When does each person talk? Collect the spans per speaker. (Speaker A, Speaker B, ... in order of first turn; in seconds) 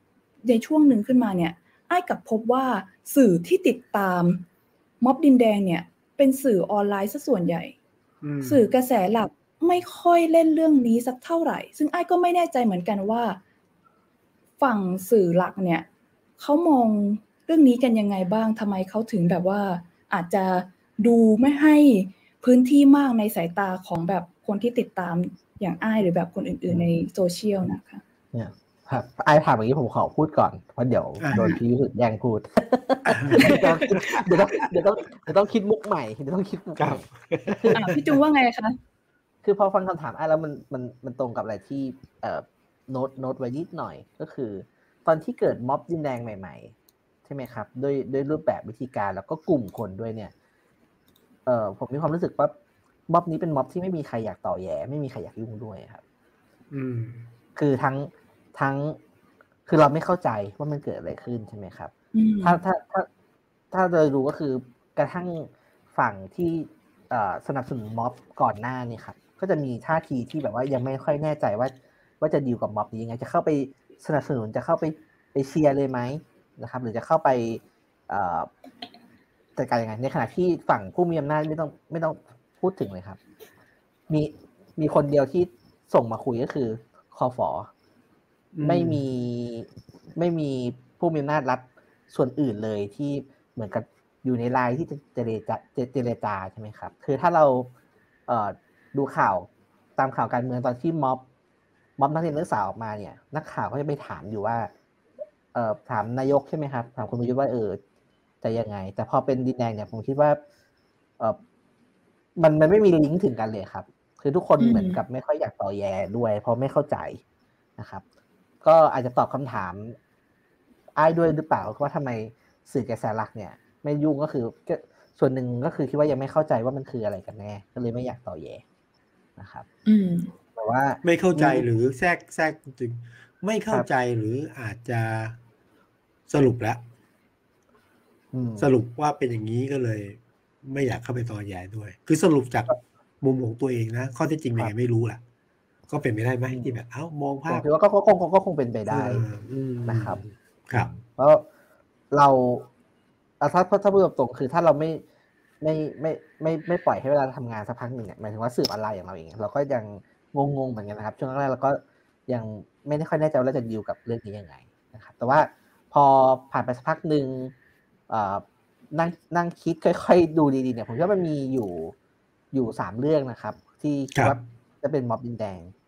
Speaker A: 0.4-4.4, 5.0-7.7, 8.4-13.4, 14.6-15.9, 16.4-28.0, 31.4-31.6, 33.4-33.9, 37.7-38.8, 62.1-62.6, 114.6-115.0, 129.9-130.3
Speaker B: 8.2-8.6, 31.2-31.5, 33.1-35.3, 36.8-38.0, 56.7-57.2, 88.5-89.0, 131.0-135.4, 136.3-136.8, 138.6-145.2, 145.9-147.7, 148.9-150.9
Speaker C: 28.3-37.9, 39.4-46.7, 47.2-50.3, 51.5-52.5, 53.1-56.0, 57.6-59.0, 59.6-61.9, 62.4-63.1, 63.7-78.5, 79.6-83.2, 84.1-87.7, 88.6-97.7, 98.3-101.2, 102.0-104.7, 105.5-107.8, 108.4-110.4, 112.4-117.2, 117.8-118.0, 118.6-120.0, 121.0-128.6, 129.4-129.7, 130.6-131.7, 138.3-138.7, 146.5-146.8, 147.5-149.2, 149.9-150.2, 150.7-151.4, 152.1-152.7, 153.4-155.0, 155.6-167.5, 168.1-171.9, 172.5-175.7